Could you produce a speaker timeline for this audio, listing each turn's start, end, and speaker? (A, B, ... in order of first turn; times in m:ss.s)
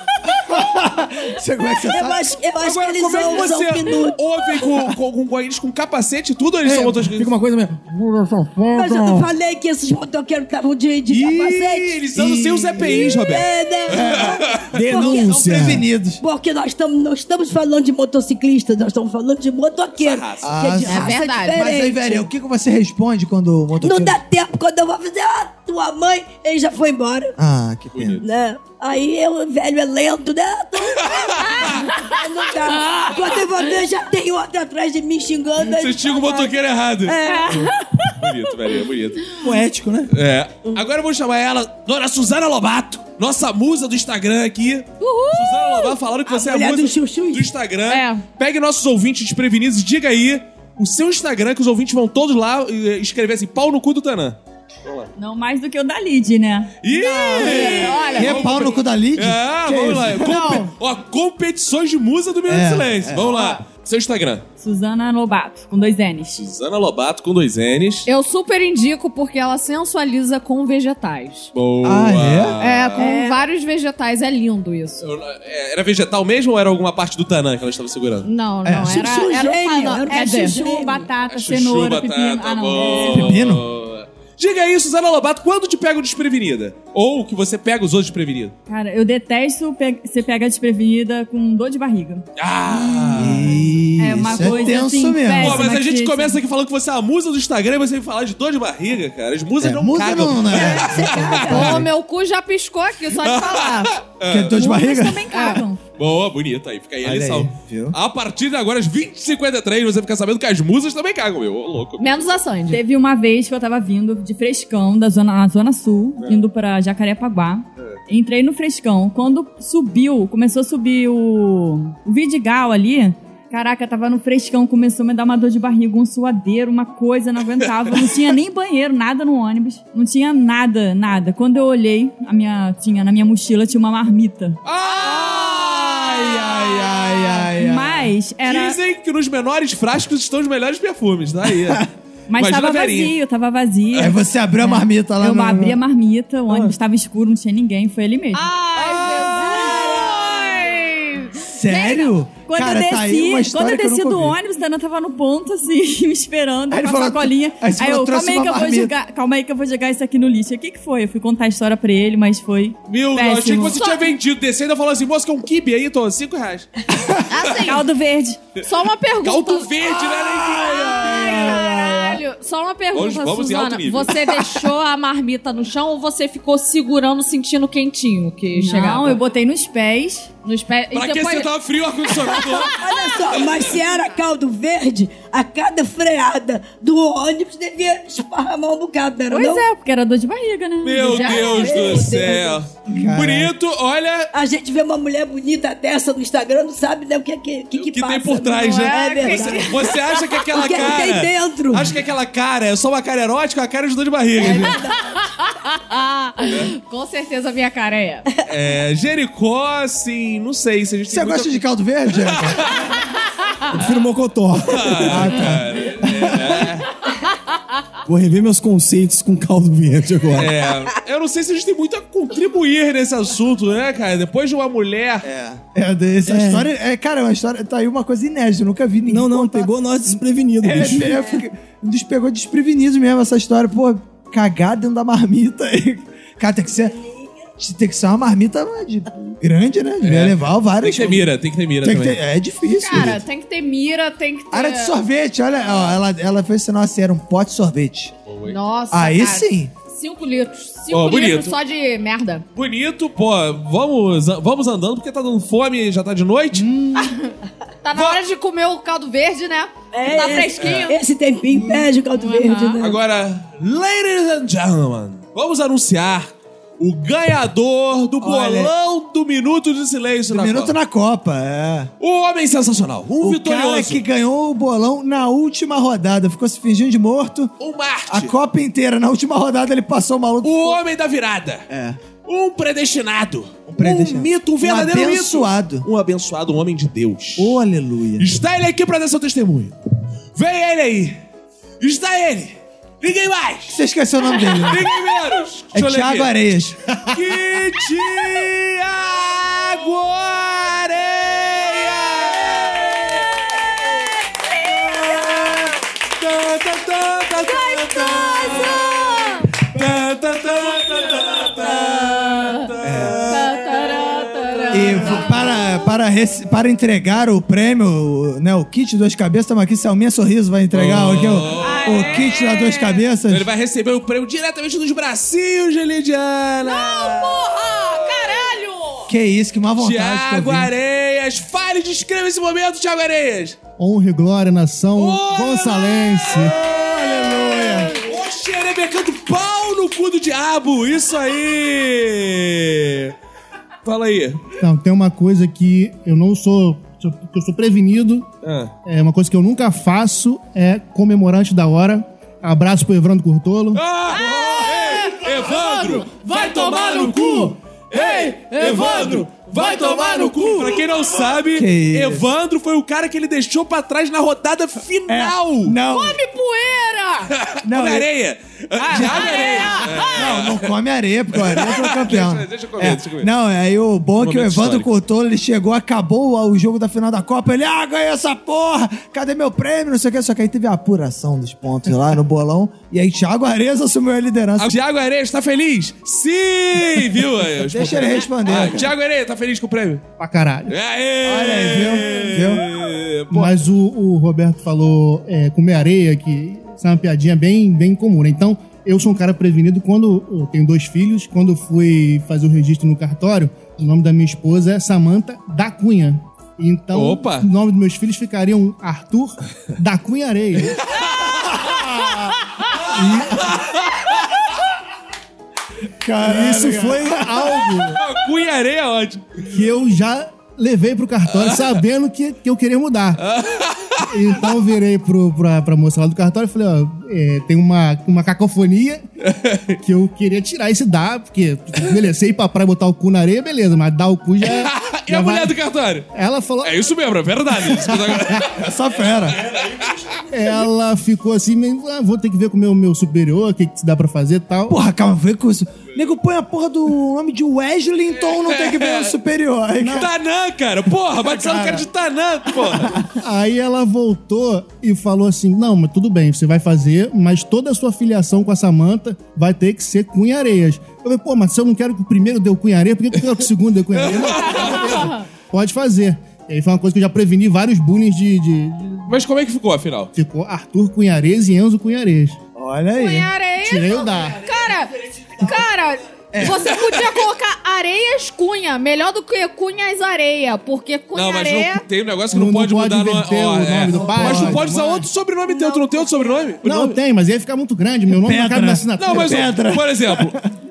0:00.3-0:02.4 A
0:01.8-0:04.2 B
0:02.6-0:07.3 C
0:06.7-0:09.2 D
0:08.7-0:12.0 B
0:11.1-0:14.7 C
0:12.2-0:12.9 A
0:12.8-0:15.5 B
0:13.9-0:16.2 A
0:14.7-0:15.8 D
0:16.2-0:22.3 B
0:19.9-0:20.5 C
0:20.4-0:24.2 A
0:20.8-0:21.6 E
0:23.8-0:27.4 B
0:27.4-0:28.2 A
0:27.9-0:28.3 C
0:28.2-0:37.8 B
0:31.0-0:31.8 C
0:35.6-0:37.2 C
0:37.4-0:37.7 E
0:38.1-0:39.3 C
0:39.4-0:40.1 D
0:40.1-0:55.1 C
0:45.0-0:46.0 E
0:46.3-0:47.5 B
0:47.9-0:48.2 E
0:55.2-0:56.7 F
0:56.8-1:04.4 C
0:56.9-0:58.8 E
0:58.2-1:00.6 A
1:00.2-1:00.7 E
1:02.5-1:03.5 A
1:04.6-1:06.4 F
1:06.4-1:08.1 C
1:08.1-1:11.5 E
1:11.5-1:13.1 C
1:11.8-1:12.6 A
1:12.6-1:15.1 E
1:13.0-1:13.4 B
1:15.0-1:18.3 C
1:18.2-1:20.6 E
1:18.6-1:19.1 A
1:18.8-1:21.1 B
1:20.1-1:23.2 F
1:21.3-1:28.5 C
1:23.0-1:23.6 A
1:28.7-1:32.2 F
1:32.4-1:33.7 C
1:33.1-1:35.7 A
1:34.0-1:36.4 F
1:34.4-1:34.8 C
1:35.4-1:41.9 C
1:39.6-1:41.9 A
1:40.5-1:41.8 B
1:41.0-1:44.0 E
1:43.2-1:44.6 C
1:44.3-1:45.3 A
1:44.5-1:45.8 F
1:45.3-1:45.6 E
1:46.0-1:52.4 C
1:47.0-1:48.0 A
1:52.0-1:52.8 E
1:52.7-2:14.6 F
2:14.6-2:17.3 C
2:14.9-2:18.1 A
2:17.4-2:18.8 F
2:18.5-2:23.1 C
2:22.3-2:29.6 F
2:24.0-2:25.8 A
2:28.3-2:31.5 E
2:29.5-2:30.1 B
2:31.5-2:34.4 A
2:31.7-2:43.8 F
2:36.7-2:38.9 A
2:42.9-2:47.1 C
2:43.6-2:44.1 E
2:47.3-2:47.8 E
2:47.6-2:48.4 F
2:48.6-2:49.7 E
2:49.2-2:51.4 C
2:50.1-2:52.2 A
2:50.5-2:59.2 E
2:52.9-2:54.5 C
2:58.6-3:00.3 F
3:00.4-3:01.5 E
3:00.9-3:02.8 C
3:02.5-3:09.7 B
3:03.4-3:03.7 C
3:09.3-3:11.8 F
3:10.8-3:14.3 C
3:11.0-3:11.6 E
3:11.1-3:12.6 B
3:12.9-3:13.5 A
3:14.3-3:19.9 B
3:17.7-3:24.8 C
3:18.6-3:20.1 E
3:20.5-3:22.0 B
3:24.4-3:25.1 B
3:24.4-3:28.3 E
3:28.5-3:32.9 C
3:31.1-3:32.7 A
3:33.7-3:35.5 D
3:34.7-3:36.9 C
3:35.0-3:36.7 A
3:38.1-3:40.7 D
3:40.3-3:45.3 C
3:45.2-3:57.0 A
3:46.3-3:46.7 D
3:49.1-3:51.2 D
3:57.6-4:01.3 A
4:00.0-4:02.2 C
4:01.8-4:03.2 A
4:02.8-4:05.0 E
4:04.5-4:08.1 A
4:05.7-4:05.9 C
4:08.3-4:08.7 C
4:08.4-4:12.4 E
4:08.9-4:09.7 A
4:10.9-4:11.6 C
4:12.6-4:16.7 C
4:16.5-4:17.1 A
4:17.0-4:17.3 E
4:17.8-4:21.0 E
4:19.9-4:23.0 B
4:22.2-4:22.8 E
4:22.8-4:30.8 C
4:28.2-4:28.7 A
4:30.3-4:31.9 A
4:32.0-4:34.0 C
4:33.2-4:37.5 A
4:37.6-4:38.4 C
4:38.1-4:40.8 A
4:40.4-4:41.7 C
4:41.7-4:42.0 A
4:42.2-4:47.6 C
4:43.7-4:45.9 A
4:47.4-4:48.3 A
4:48.2-4:49.8 C
4:50.4-4:51.2 C
4:51.8-4:53.8 C
4:53.7-4:54.9 A
4:54.4-4:56.3 C
4:55.7-4:56.8 A
4:57.1-5:15.2 C
5:07.7-5:09.5 E
5:12.2-5:12.7 E
5:12.8-5:13.5 A
5:13.3-5:15.4 E
5:14.7-5:23.5 A
5:20.7-5:22.2 C
5:21.6-5:23.0 E
5:23.3-5:28.5 C
5:26.6-5:29.1 E
5:29.1-5:30.7 A
5:29.8-5:33.6 C
5:33.8-5:36.6 G
5:35.0-5:43.2 C
5:36.3-5:38.1 A
5:43.8-5:44.4 C
5:44.6-5:48.3 G
5:48.4-5:48.7 C
5:48.8-5:53.8 G
5:53.8-6:05.8 C
5:54.1-6:00.6 E
6:01.5-6:02.3 A
6:05.1-6:06.2 A
6:05.9-6:07.3 E
6:07.4-6:10.7 C
6:07.6-6:08.1 A
6:08.8-6:10.1 E
6:08.9-6:24.8 A
6:11.3-6:13.3 C
6:14.2-6:14.9 C
6:24.6-6:30.0 C
6:27.6-6:28.9 A
6:30.2-6:30.8 G
6:30.7-6:33.6 C
6:31.2-6:32.7 A
6:33.3-6:50.8 G
6:46.9-6:47.5 C
6:51.1-6:51.6 C
6:51.6-6:52.2 A
6:52.8-6:54.5 C
6:52.9-6:53.5 A
6:56.0-6:57.7 A
6:56.2-6:58.0 G
6:58.0-6:59.4 C
6:59.4-7:03.2 G
7:01.3-7:01.8 C
7:03.2-7:04.1 C
7:04.0-7:09.0 G
7:09.2-7:09.8 C
7:09.8-7:15.6 G
7:14.4-7:16.1 C
7:16.1-7:16.9 G
7:16.6-7:18.7 C
7:17.6-7:18.4 G
7:18.4-7:19.6 A
7:19.4-7:20.1 C
7:20.3-7:24.8 G
7:24.7-7:30.1 A
7:28.1-7:29.1 C
7:29.8-7:33.0 C
7:31.2-7:31.9 A
7:33.1-7:49.2 G
7:43.9-7:45.1 C
7:44.4-7:45.2 E
7:49.1-7:50.1 C
7:50.1-7:52.4 G
7:52.6-7:53.3 A
7:53.0-8:01.8 E
7:53.6-7:54.4 G
7:56.3-7:56.7 A
7:56.4-7:57.2 C
8:01.1-8:07.0 C
8:02.3-8:05.1 G
8:03.9-8:04.7 A
8:05.5-8:06.1 E
8:06.6-8:09.5 G
8:08.1-8:10.4 A
8:09.0-8:10.4 C